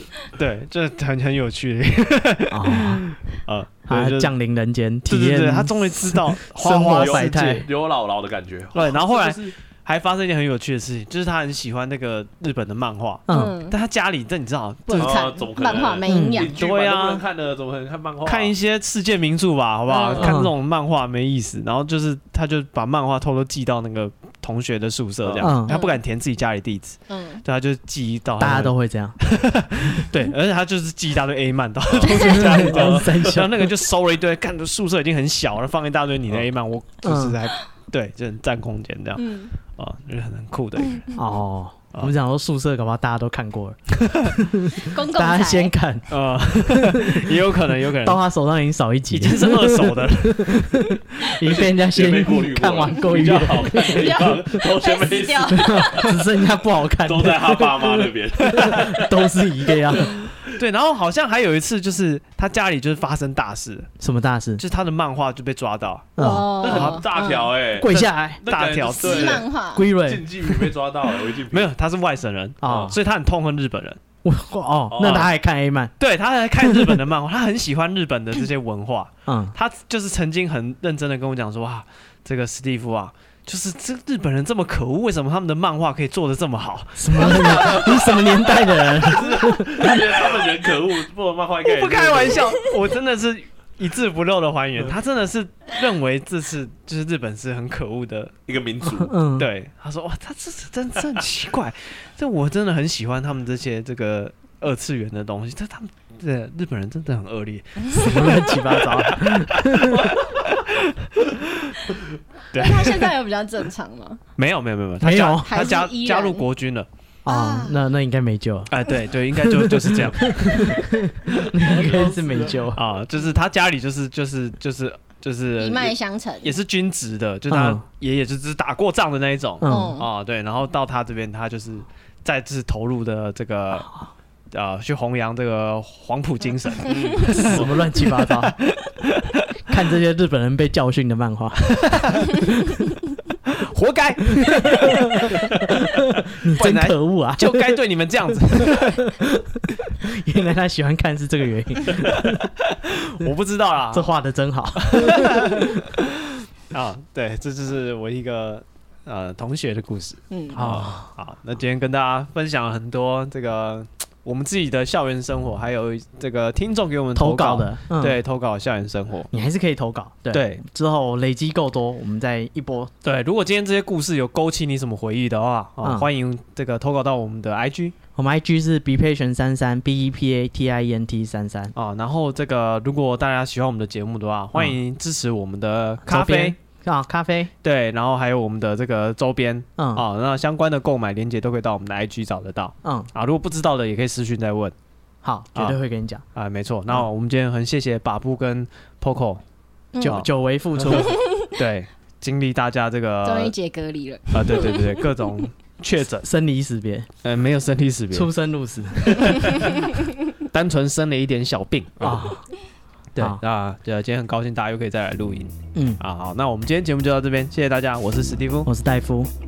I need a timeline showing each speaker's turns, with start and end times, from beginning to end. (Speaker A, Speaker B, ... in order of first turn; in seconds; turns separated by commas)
Speaker A: 0.3-4.3, Speaker B: 2.5-3.2, Speaker B: 3.9-7.7, Speaker A: 5.1-7.6, Speaker C: 6.8-9.6, Speaker A: 8.7-15.3, Speaker B: 13.3-13.5, Speaker D: 13.3-13.8, Speaker D: 14.9-16.5, Speaker C: 15.0-18.5, Speaker B: 16.1-16.5, Speaker A: 16.5-17.2, Speaker A: 18.3-41.0, Speaker D: 19.9-20.3, Speaker B: 20.2-20.5, Speaker C: 25.2-25.5, Speaker B: 25.4-25.8, Speaker D: 25.7-26.0, Speaker D: 27.1-27.4, Speaker B: 28.4-29.2, Speaker C: 31.9-33.5, Speaker B: 32.1-33.8, Speaker B: 37.0-37.4, Speaker D: 39.2-39.6, Speaker B: 41.2-54.3, Speaker A: 44.1-44.3, Speaker D: 44.8-45.7, Speaker A: 46.1-48.2, Speaker A: 49.1-50.7, Speaker C: 51.4-56.4, Speaker D: 53.7-56.1, Speaker B: 55.5-60.3, Speaker C: 57.0-60.5, Speaker A: 60.6-63.9, Speaker B: 64.0-64.6, Speaker A: 64.6-67.0, Speaker B: 66.2-66.7, Speaker D: 66.2-67.5, Speaker C: 66.6-71.7, Speaker B: 67.8-68.4, Speaker A: 68.4-69.5, Speaker D: 69.0-69.9, Speaker B: 69.7-70.3, Speaker A: 71.5-74.0, Speaker B: 72.6-73.0, Speaker C: 72.6-72.9, Speaker B: 74.2-75.9, Speaker C: 74.9-75.3, Speaker A: 76.0-88.2, Speaker B: 76.6-77.0, Speaker B: 79.3-79.5, Speaker B: 87.0-90.2, Speaker C: 87.1-92.5, Speaker A: 91.6-98.3, Speaker C: 98.5-99.1, Speaker B: 98.9-99.5, Speaker A: 99.4-109.1, Speaker D: 107.8-108.3, Speaker B: 107.9-110.2, Speaker A: 109.7-111.8, Speaker A: 112.5-113.1, Speaker D: 112.5-114.2, Speaker A: 114.4-116.9, Speaker B: 115.0-115.8, Speaker D: 115.4-116.5, Speaker D: 117.3-117.8, Speaker B: 117.3-118.8, Speaker A: 118.7-120.8, Speaker B: 119.3-122.8, Speaker C: 121.6-122.7, Speaker A: 122.7-133.9, Speaker D: 125.6-126.6, Speaker B: 127.5-127.8, Speaker B: 129.6-130.0, Speaker D: 129.6-130.1, Speaker A: 134.5-139.7, Speaker C: 136.9-137.8, Speaker B: 137.3-138.6, Speaker B: 139.7-142.2, Speaker A: 141.7-142.2, Speaker A: 143.5-145.7, Speaker B: 144.4-147.8, Speaker A: 146.4-149.1, Speaker B: 148.5-152.5, Speaker A: 152.7-154.1, Speaker B: 153.9-155.8, Speaker A: 154.8-156.1, Speaker A: 156.7-169.3, Speaker D: 160.3-160.7, Speaker B: 160.5-161.1, Speaker B: 167.1-168.2, Speaker B: 169.3-172.9, Speaker A: 170.3-170.6, Speaker A: 173.0-177.9, Speaker B: 175.8-176.1, Speaker B: 178.2-181.7, Speaker A: 181.8-186.6, Speaker B: 186.1-187.5, Speaker A: 187.6-194.8, Speaker B: 189.8-190.1, Speaker B: 192.8-193.1, Speaker B: 195.2-196.2, Speaker A: 196.3-199.4, Speaker D: 199.9-200.2, Speaker A: 200.0-203.5, Speaker B: 200.0-201.2, Speaker D: 200.9-201.5, Speaker D: 203.2-205.1, Speaker A: 204.3-206.3, Speaker B: 206.2-207.1, Speaker A: 207.2-208.3, Speaker B: 208.1-209.7, Speaker A: 210.4-212.3, Speaker B: 212.0-212.4, Speaker A: 213.2-218.7, Speaker B: 215.8-216.0, Speaker B: 218.6-219.3